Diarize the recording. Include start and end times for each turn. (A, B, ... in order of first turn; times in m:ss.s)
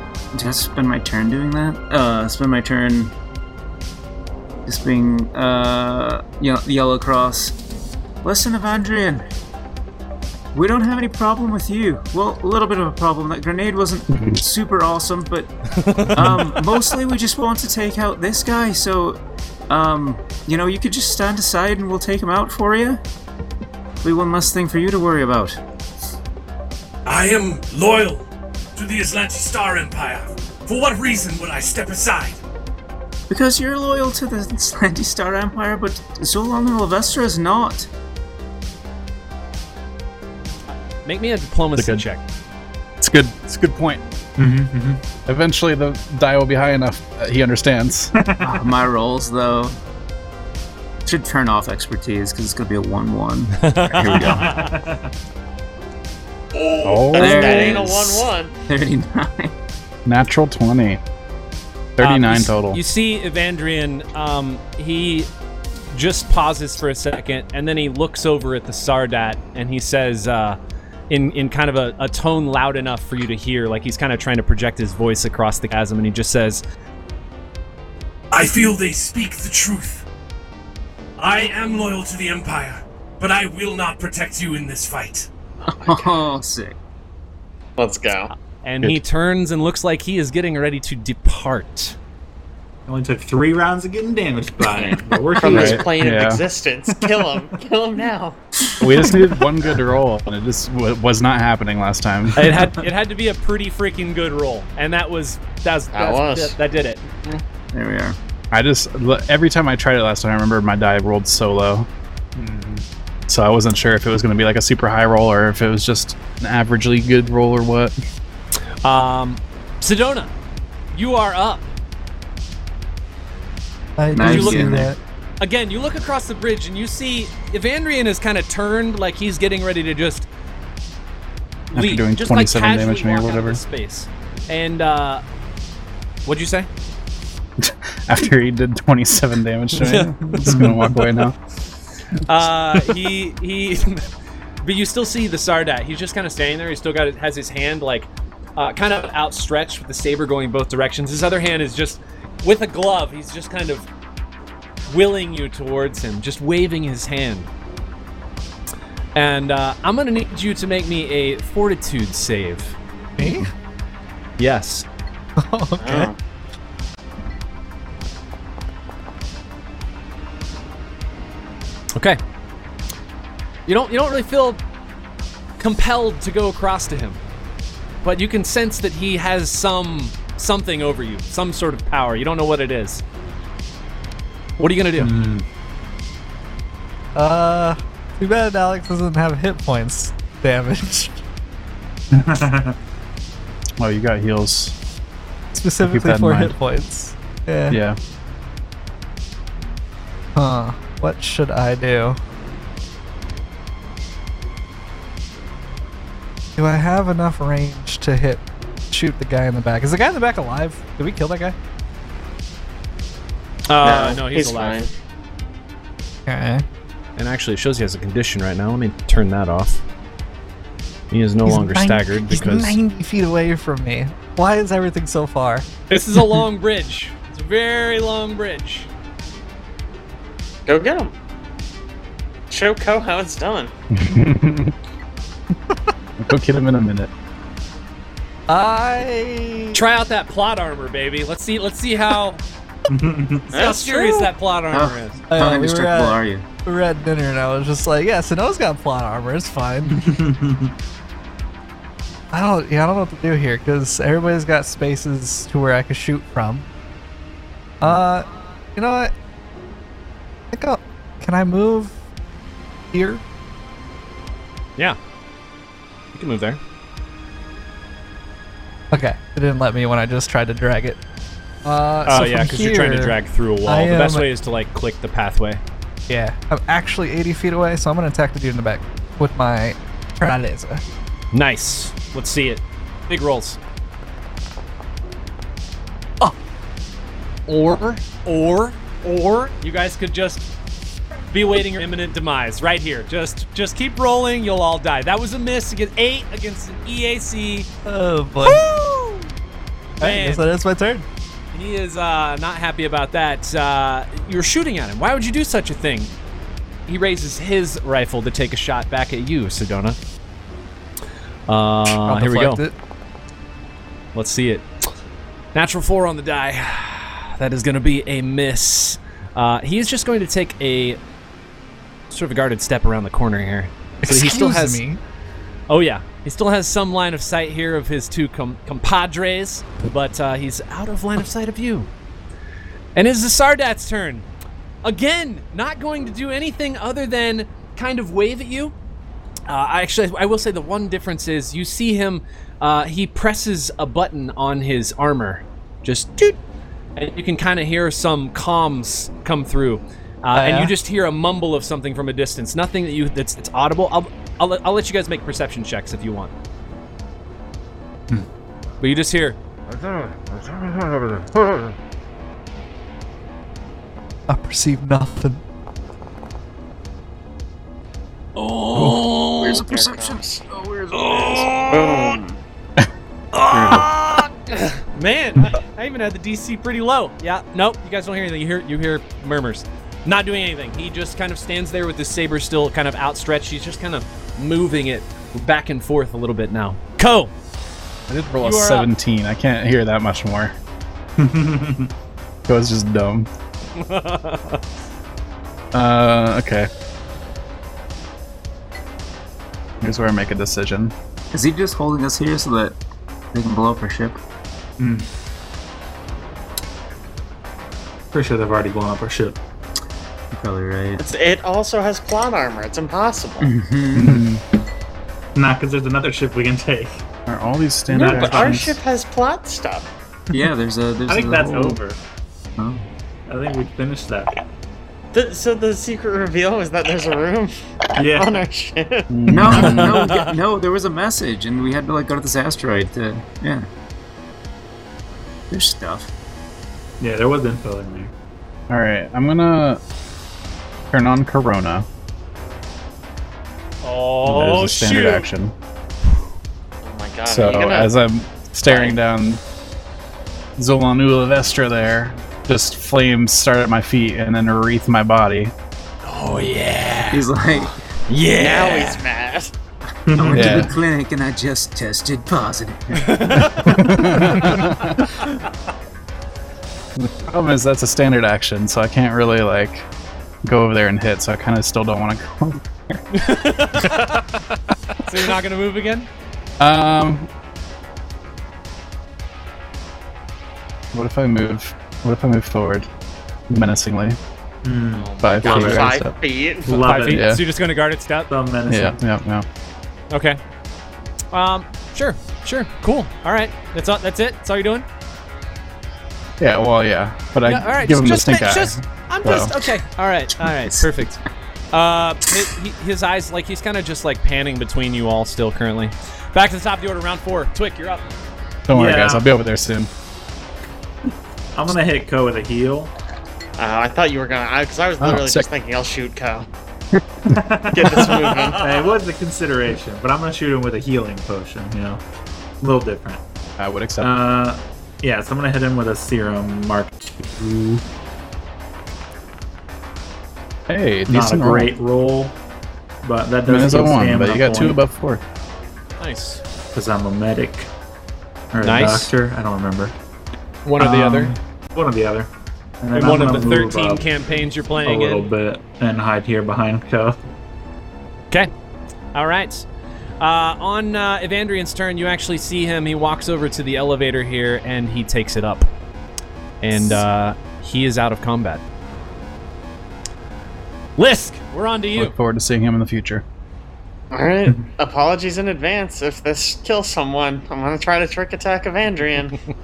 0:00.3-0:03.1 A
0:04.6-0:07.6 A
0:08.2-0:09.2 A
0:10.5-0:15.5 A
0:14.1-0:14.4 B
0:15.8-0:16.2 C
0:16.1-0:23.0 A
0:24.0-0:25.6 A
0:27.0-0:32.4 D
0:33.3-0:37.9 A
0:41.0-0:42.2 C
0:41.8-0:42.0 B
0:43.0-0:44.0 B
0:44.4-0:45.0 E
0:45.2-0:48.1 B
0:48.1-0:48.6 E
0:48.4-0:49.8 A
0:51.0-0:54.5 A
0:53.6-0:54.7 C
0:54.2-0:55.1 E
0:56.8-0:57.7 B
0:57.1-0:58.5 F
0:57.1-0:59.5 A
1:00.0-1:01.0 B
1:02.0-1:02.8 B
1:02.0-1:05.3 C
1:05.9-1:10.6 C
1:11.1-1:16.6 C
1:18.3-1:20.0 D
1:21.2-1:25.3 D
1:25.7-1:26.8 A
1:27.8-1:28.3 F
1:28.6-1:32.0 C
1:32.9-1:35.9 E
1:34.6-1:38.4 F
1:35.4-1:36.4 B
1:38.8-1:42.7 B
1:42.4-1:47.4 C
1:42.4-1:42.7 E
1:45.9-1:46.5 F
1:47.7-1:48.2 A
1:48.5-1:51.9 B
1:52.4-1:52.8 E
1:53.3-1:57.9 B
1:58.8-2:00.3 C
2:00.9-2:01.7 C
2:04.0-2:05.0 G
2:04.1-2:04.9 A
2:04.2-2:04.8 C
2:05.4-2:10.3 C
2:11.7-2:15.2 C
2:11.7-2:13.6 B
2:16.2-2:16.7 C
2:17.6-2:21.4 B
2:19.7-2:20.6 C
2:20.4-2:20.9 E
2:22.3-2:24.0 C
2:24.6-2:33.9 C
2:34.9-2:37.5 C
2:39.1-2:42.8 C
2:43.2-2:43.5 G
2:44.4-2:44.8 C
2:45.4-2:46.1 G
2:45.8-2:46.2 F
2:53.7-2:54.6 C
2:55.6-2:57.2 C
2:58.0-3:03.0 C
3:04.6-3:05.2 C
3:05.0-3:05.4 E
3:07.1-3:11.2 G
3:12.1-3:12.8 E
3:13.8-3:14.7 B
3:15.5-3:17.8 G
3:15.8-3:16.5 B
3:17.7-3:18.0 B
3:20.4-3:22.2 G
3:26.6-3:31.5 G
3:33.7-3:34.9 C
3:33.8-3:34.9 F
3:36.3-3:36.6 G
3:37.2-3:39.8 C
3:41.1-3:42.8 C
3:41.4-3:45.6 G
3:45.9-3:48.9 C
3:50.7-3:51.1 F
3:52.5-3:53.7 F
3:53.9-3:54.7 B
3:56.2-3:57.1 B
3:58.5-3:59.8 G
3:59.7-4:02.4 C
4:02.9-4:03.5 E
4:03.5-4:05.2 C
4:03.5-4:04.3 F
4:04.7-4:06.4 A
4:05.3-4:10.0 G
4:09.9-4:10.7 E
4:12.3-4:16.7 G
4:17.8-4:19.1 G
4:20.5-4:22.0 G
4:22.9-4:23.2 G
4:26.1-4:26.6 C
4:28.9-4:31.0 G
4:31.6-4:34.2 G
4:32.0-4:35.6 C
4:36.1-4:40.8 G
4:41.3-4:43.6 C
4:47.5-4:50.4 C
4:51.3-4:57.7 C
4:57.8-4:58.6 G
4:58.4-4:59.3 C
5:00.0-5:00.4 C
5:00.0-5:01.0 G
5:01.5-5:06.1 C
5:06.9-5:10.0 C
5:11.5-5:12.6 C
5:11.8-5:12.7 G
5:14.1-5:14.6 C
5:15.5-5:21.0 C
5:22.1-5:24.8 C
5:24.0-5:25.0 G
5:25.7-5:31.9 C
5:32.9-5:34.3 C
5:34.8-5:38.7 C
5:39.5-5:46.4 C
5:47.0-5:56.3 C
5:50.3-5:50.7 G
5:58.8-5:59.4 C
6:04.3-6:05.4 G
6:08.4-6:09.6 C
6:08.8-6:11.6 A
6:09.6-6:10.4 F
6:10.9-6:12.2 C
6:11.7-6:12.4 F
6:13.3-6:27.3 C
6:13.5-6:13.9 A
6:28.1-6:30.5 B
6:28.3-6:28.9 C
6:31.2-6:31.9 E
6:32.5-6:33.3 B
6:33.8-6:34.6 C
6:35.7-6:36.7 B
6:39.8-6:40.9 B
6:41.3-6:42.8 A
6:43.3-6:44.2 A
6:44.8-6:45.1 E
6:48.1-6:49.4 E
6:50.3-6:51.0 A
6:51.0-6:53.5 F
6:53.4-6:54.2 A
6:54.0-6:54.4 B
6:55.3-6:57.0 E
6:57.2-6:58.8 B
6:57.9-6:59.9 F
6:57.9-6:58.6 E
7:00.3-7:01.8 A
7:01.1-7:02.0 E
7:02.6-7:02.8 A
7:03.3-7:04.3 E
7:05.1-7:07.5 F
7:08.0-7:08.4 E
7:08.1-7:09.1 F
7:09.1-7:09.9 B
7:09.3-7:13.6 A
7:09.5-7:10.3 C
7:15.5-7:16.1 A
7:17.0-7:18.1 E
7:18.7-7:19.8 B
7:20.9-7:21.8 B
7:23.8-7:25.3 C
7:24.2-7:25.5 B
7:26.8-7:27.9 F
7:27.3-7:29.4 B
7:28.6-7:29.0 F
7:30.6-7:35.5 B
7:36.0-7:39.0 C
7:37.1-7:37.8 A
7:38.4-7:39.5 F
7:40.1-7:40.7 E
7:40.1-7:43.6 A
7:40.3-7:40.7 B
7:43.0-7:43.8 C
7:43.3-7:45.1 B
7:47.0-7:49.9 B
7:50.4-7:53.0 B
7:53.1-7:54.3 C
7:55.0-7:56.1 C
7:56.6-7:57.3 B
8:00.9-8:02.9 B
8:03.5-8:04.2 B
8:04.6-8:05.9 E
8:04.9-8:05.4 C
8:05.2-8:06.0 B
8:05.4-8:06.8 F
8:06.6-8:07.4 E
8:06.7-8:08.3 C
8:07.0-8:07.4 B
8:08.3-8:09.0 E
8:08.7-8:09.4 B
8:10.1-8:10.4 C
8:11.3-8:14.8 C
8:16.4-8:19.6 B
8:17.4-8:21.2 C
8:20.6-8:21.0 A
8:21.7-8:28.0 C
8:28.7-8:29.9 B
8:28.7-8:29.3 E
8:31.5-8:32.9 E
8:33.6-8:36.5 F
8:35.0-8:35.5 B
8:37.3-8:42.0 E
8:37.7-8:38.7 F
8:42.6-8:43.2 E
8:43.6-8:44.1 B
8:44.0-8:47.8 E
8:50.7-8:51.7 B
8:51.1-8:52.4 E
8:53.0-8:54.8 E
8:53.4-8:55.2 B
8:56.0-8:56.4 C
8:56.7-8:57.7 E
8:58.5-8:59.9 E
8:58.6-8:59.1 C
9:00.6-9:01.3 C
9:00.8-9:02.3 E
9:02.8-9:04.1 E
9:02.9-9:05.3 C
9:04.8-9:07.2 E
9:09.1-9:09.6 C
9:10.2-9:15.7 C
9:16.6-9:18.6 C
9:21.0-9:22.1 C
9:22.0-9:23.2 B
9:24.1-9:29.4 F